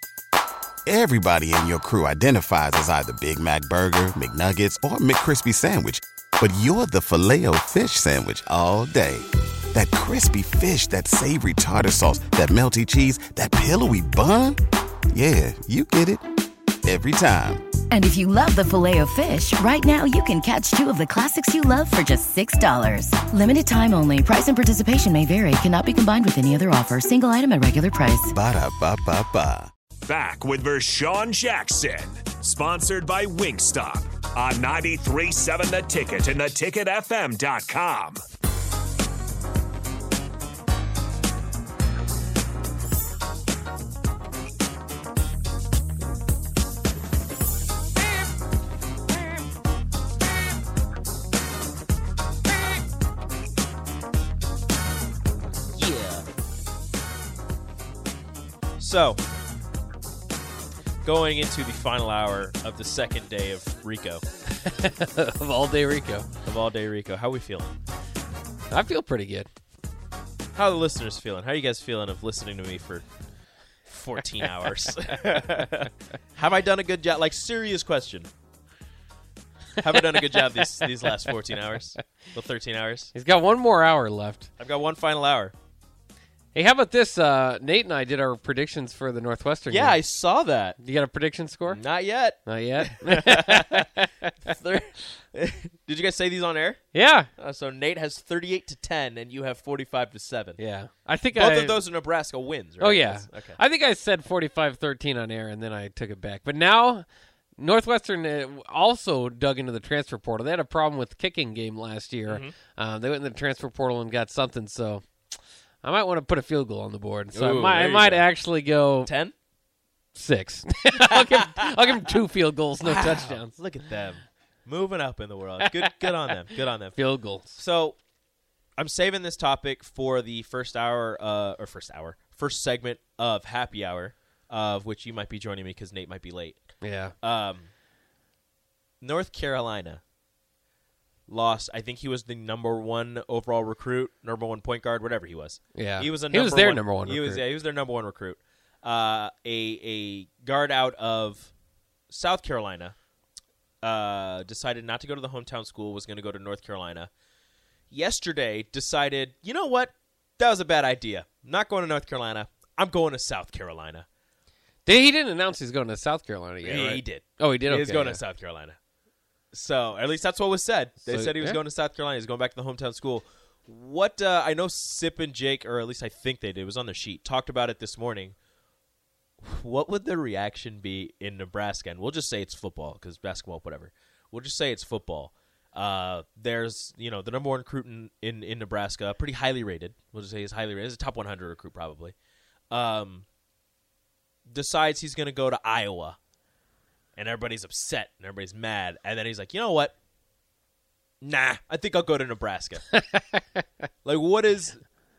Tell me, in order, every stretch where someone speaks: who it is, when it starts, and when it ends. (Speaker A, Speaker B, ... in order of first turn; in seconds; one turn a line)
Speaker A: 0.9-14.6
Speaker A: 15.1-16.2
Speaker A: 16.8-17.6
Speaker B: 17.9-28.3
Speaker A: 28.3-29.7
Speaker C: 30.1-38.2
Speaker D: 55.8-56.1
Speaker D: 58.8-59.2
Speaker D: 61.0-64.2
Speaker E: 64.6-66.3
Speaker D: 66.4-67.7
Speaker E: 68.7-69.5
Speaker D: 70.5-73.0
Speaker D: 73.9-78.3
Speaker D: 79.8-83.1
Speaker E: 83.1-84.5
Speaker D: 84.6-85.5
Speaker E: 86.5-90.0
Speaker D: 89.7-90.8
Speaker E: 90.8-91.8
Speaker D: 91.7-93.9
Speaker E: 92.5-94.3
Speaker D: 94.5-96.8
Speaker E: 96.9-97.3
Speaker D: 97.4-100.6
Speaker E: 100.6-101.8
Speaker D: 101.3-103.6
Speaker E: 102.8-107.1
Speaker E: 107.6-119.1
Speaker D: 112.3-112.5
Speaker D: 117.3-118.3
Speaker D: 119.0-119.3
Speaker E: 120.2-123.5
Speaker D: 121.0-121.5
Speaker D: 122.8-127.0
Speaker E: 127.0-127.5
Speaker D: 127.5-128.0
Speaker D: 128.8-136.6
Speaker E: 136.8-137.1
Speaker D: 137.2-137.7
Speaker D: 139.0-140.0
Speaker D: 141.3-151.5
Speaker E: 145.8-147.4
Speaker D: 152.1-153.0
Speaker D: 153.8-157.1
Speaker D: 157.9-164.1
Speaker E: 164.9-168.2
Speaker D: 166.6-168.8
Speaker D: 169.5-178.3
Speaker E: 171.1-171.6
Speaker D: 179.4-192.2
Speaker D: 192.7-193.2
Speaker D: 194.5-196.2
Speaker D: 197.2-199.9
Speaker D: 201.2-202.9
Speaker E: 203.1-203.4
Speaker D: 204.1-204.8